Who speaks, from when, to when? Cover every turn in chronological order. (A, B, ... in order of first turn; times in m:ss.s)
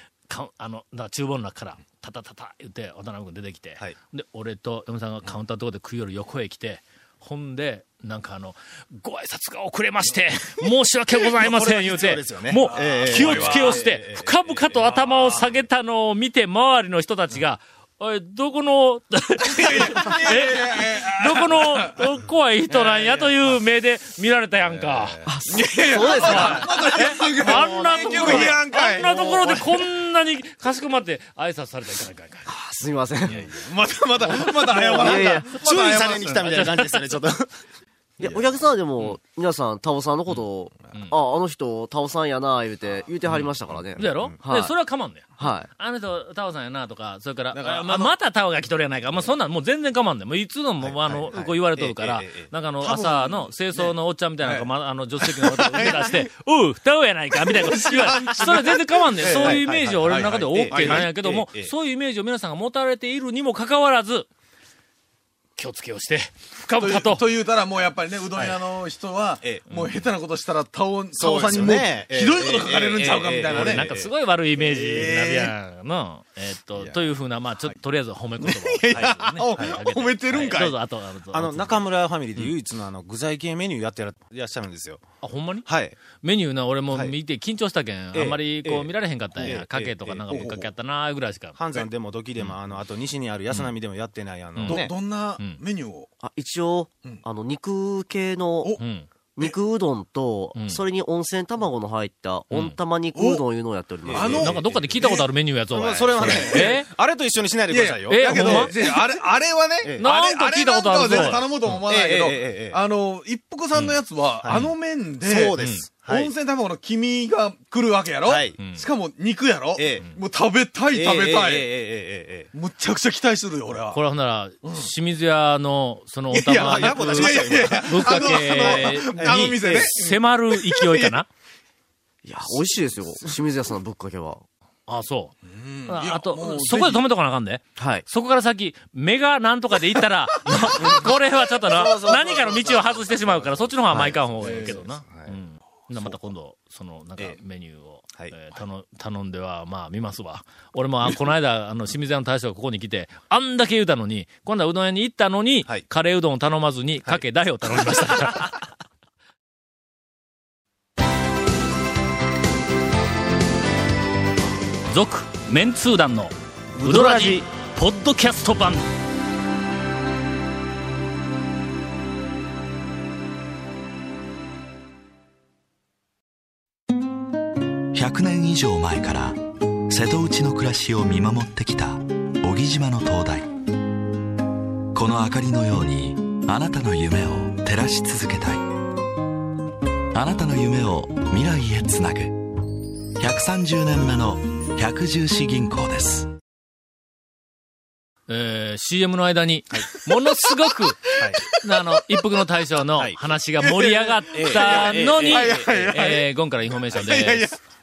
0:00.3-0:25.2 A
0:11.2-0:14.9 B
0:12.6-0:13.8 C
0:14.8-0:15.5 C
0:19.4-0:22.1 C
0:22.7-0:23.3 C
0:24.6-0:29.8 C
0:25.2-0:26.7 D
0:26.0-0:32.5 A
0:27.4-0:28.5 D
0:32.5-0:33.5 D
0:33.3-0:36.6 C
0:34.3-0:35.5 D
0:34.9-0:37.5 B
0:36.2-0:37.0 A
0:38.2-0:44.7 D
0:38.2-0:38.5 C
0:43.4-0:43.7 C
0:44.0-1:04.3 A
0:44.0-0:44.4 B
0:45.4-0:45.7 D
0:47.5-0:48.1 C
0:50.8-0:52.5 B
0:52.8-0:54.7 C
0:55.2-0:56.3 C
0:57.4-1:01.1 C
0:59.2-1:01.7 B
1:05.6-1:07.2 A
1:06.8-1:13.9 C
1:11.2-1:14.1 B
1:13.5-1:21.8 A
1:14.6-1:15.5 C
1:16.8-1:17.1 C
1:18.4-1:20.8 C
1:18.9-1:19.8 B
1:21.3-1:25.0 B
1:25.2-1:25.7 A
1:25.6-1:26.0 B
1:26.2-1:31.6 A
1:28.1-1:30.5 B
1:30.3-1:30.7 C
1:31.6-1:34.9 B
1:34.6-1:34.8 A
1:34.6-1:36.1 C
1:36.2-1:38.8 D
1:38.8-1:39.1 A
1:39.4-1:44.5 D
1:40.5-1:40.8 A
1:42.5-1:42.8 A
1:43.1-1:43.4 C
1:44.0-1:45.0 B
1:44.1-1:45.3 C
1:44.4-1:46.9 A
1:45.7-1:49.0 B
1:46.2-1:46.8 C
1:47.7-2:01.7 C
1:48.1-1:48.7 A
1:50.0-1:51.4 A
1:51.0-1:52.8 B
1:53.7-1:54.7 A
1:54.4-1:54.7 B
1:55.2-1:56.3 B
1:55.6-1:55.9 A
1:58.2-1:58.6 B
1:58.6-1:58.9 A
1:59.8-2:00.0 B
2:00.9-2:02.5 B
2:02.5-2:04.0 C
2:03.9-2:11.3 A
2:04.6-2:04.9 C
2:06.3-2:11.2 C
2:06.5-2:09.8 B
2:12.2-2:14.4 D
2:14.9-2:15.3 A
2:15.4-2:17.0 C
2:15.9-2:38.6 A
2:17.8-2:18.0 D
2:20.5-2:21.0 C
2:20.8-2:21.1 B
2:21.6-2:25.4 B
2:24.4-2:24.8 C
2:25.9-2:26.2 B
2:37.8-2:38.5 B
2:44.9-2:48.9 A
2:46.7-2:47.4 B
2:57.9-3:03.5 E
3:04.9-3:08.7 E
3:10.1-3:12.5 E
3:13.2-3:16.3 E
3:18.3-3:27.5 A
3:21.1-3:21.6 C
3:21.2-3:21.4 B
3:23.6-3:26.3 C
3:24.3-3:25.7 B
3:26.8-3:27.6 C